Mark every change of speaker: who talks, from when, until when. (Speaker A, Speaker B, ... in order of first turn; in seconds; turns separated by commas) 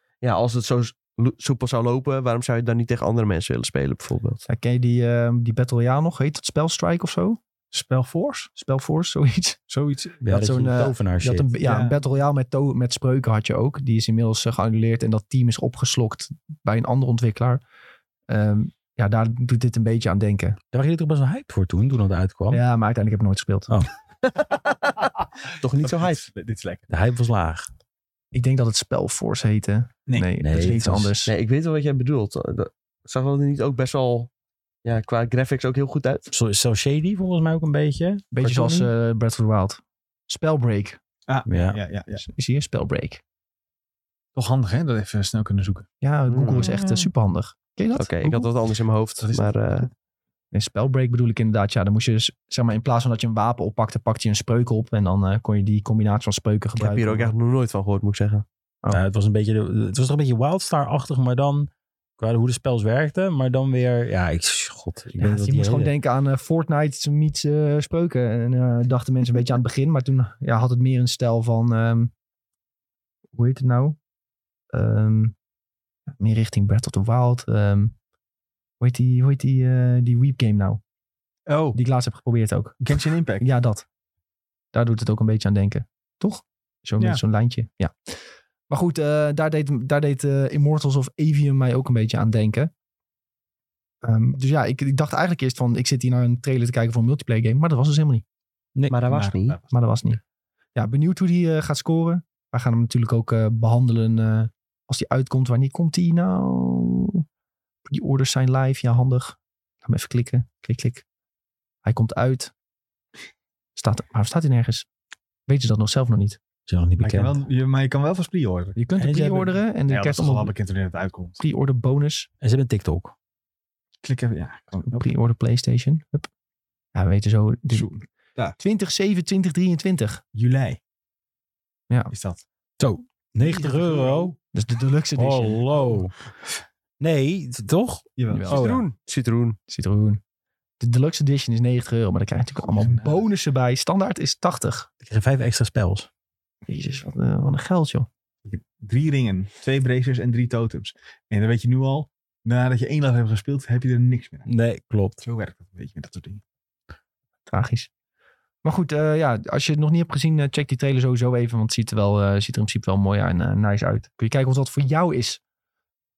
Speaker A: 0.2-4.4, Speaker B: 4.5-7.4, Speaker C: 7.7-8.5, Speaker B: 8.6-9.6, Speaker C: 9.7-10.2, Speaker D: 10.2-11.5, Speaker B: 10.3-17.6, Speaker C: 11.6-12.0, Speaker B: 18.3-20.6, Speaker D: 20.7-22.6, Speaker B: 22.5-23.7, Speaker A: 24.2-25.0, Speaker A: 25.6-26.2, Speaker C: 25.8-26.9, Speaker D: 26.9-27.7, Speaker B: 28.3-31.3, Speaker C: 30.1-30.8, Speaker D: 30.4-31.1, Speaker A: 31.2-34.3, Speaker A: 34.8-36.3, Speaker D: 36.3-38.9, Speaker B: 38.3-41.0, Speaker C: 41.3-42.2, Speaker D: 41.5-41.8, Speaker B: 42.1-43.2, Speaker C: 44.3-45.9, Speaker B: 46.0-48.5, Speaker A: 46.3-46.7, Speaker C: 46.5-47.1, Speaker A: 48.0-49.9, Speaker C: 49.2-49.8, Speaker B: 50.5-57.3, Speaker A: 56.8-58.4, Speaker D: 58.9-65.9, Speaker B: 65.2-72.1, Speaker B: 73.3-74.0, Speaker B: 74.7-75.3, Speaker B: 76.1-77.9, Speaker B: 78.8-80.8, Speaker C: 81.5-81.8, Speaker B: 81.7-82.8, Speaker C: 82.8-83.5, Speaker B: 83.4-83.8, Speaker B: 84.7-87.9, Speaker B: 88.7-92.7, Speaker B: 94.0-98.2, Speaker A: 98.9-99.6, Speaker C: 99.1-99.7, Speaker B: 99.7-100.2, Speaker B: 100.7-107.2, Speaker B: 107.8-111.0, Speaker B: 111.8-112.5, Speaker B: 113.8-114.9, Speaker B: 115.5-116.4, Speaker D: 116.7-117.3, Speaker C: 117.0-118.8, Speaker B: 118.8-120.5, Speaker D: 119.0-119.6, Speaker C: 119.9-121.4, Speaker B: 121.4-122.3, Speaker D: 122.4-123.1, Speaker C: 124.0-125.0, Speaker B: 124.8-126.3, Speaker B: 126.9-127.9, Speaker C: 127.7-128.6, Speaker B: 128.6-130.2, Speaker C: 130.3-130.8, Speaker C: 132.1-132.4, Speaker D: 132.8-134.3, Speaker C: 133.4-134.3, Speaker B: 134.5-135.7, Speaker D: 135.2-136.1, Speaker D: 137.0-138.8, Speaker C: 138.2-138.5, Speaker B: 138.3-138.7, Speaker A: 138.5-139.6, Speaker B: 139.7-140.2, Speaker B: 140.8-144.9, Speaker C: 142.6-143.2, Speaker D: 145.0-146.1, Speaker B: 146.7-148.1, Speaker C: 148.4-154.5, Speaker D: 154.5-155.2, Speaker C: 155.2-156.4, Speaker B: 157.5-157.9, Speaker B: 158.6-165.4